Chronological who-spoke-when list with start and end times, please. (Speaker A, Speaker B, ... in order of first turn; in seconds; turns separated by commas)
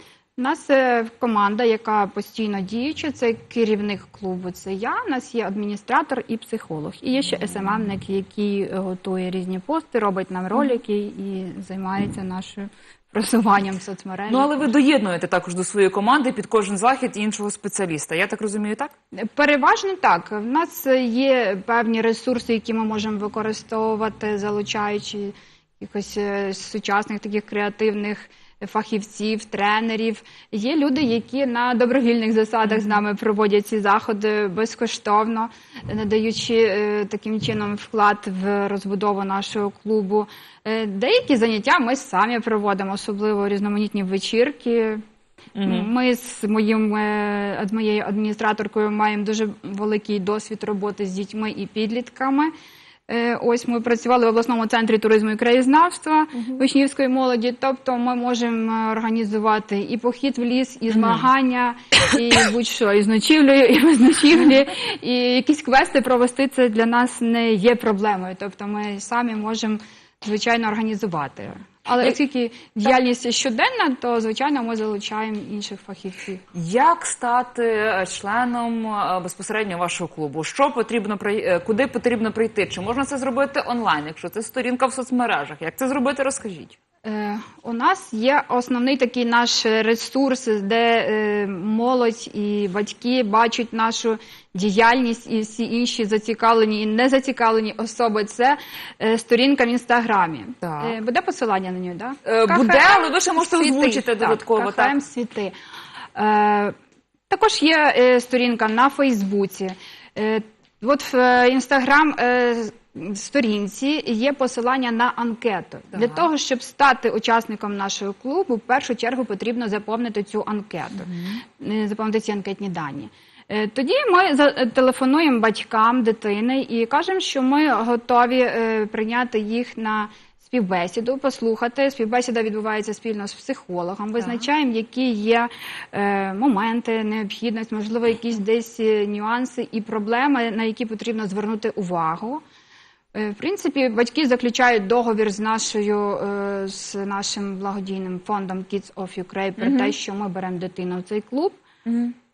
Speaker A: 0.4-14.7, Speaker B: 14.3-18.9, Speaker A: 19.1-45.0, Speaker B: 32.7-33.0, Speaker B: 45.5-45.9, Speaker A: 45.6-52.5, Speaker A: 53.1-76.4, Speaker B: 60.9-61.2, Speaker B: 76.5-86.8, Speaker A: 87.0-105.5, Speaker B: 100.6-101.0, Speaker B: 102.2-105.0, Speaker A: 106.1-106.7, Speaker A: 107.3-142.4, Speaker B: 115.9-116.3, Speaker B: 121.0-121.4, Speaker A: 143.1-151.6, Speaker B: 149.6-149.9, Speaker B: 151.8-152.1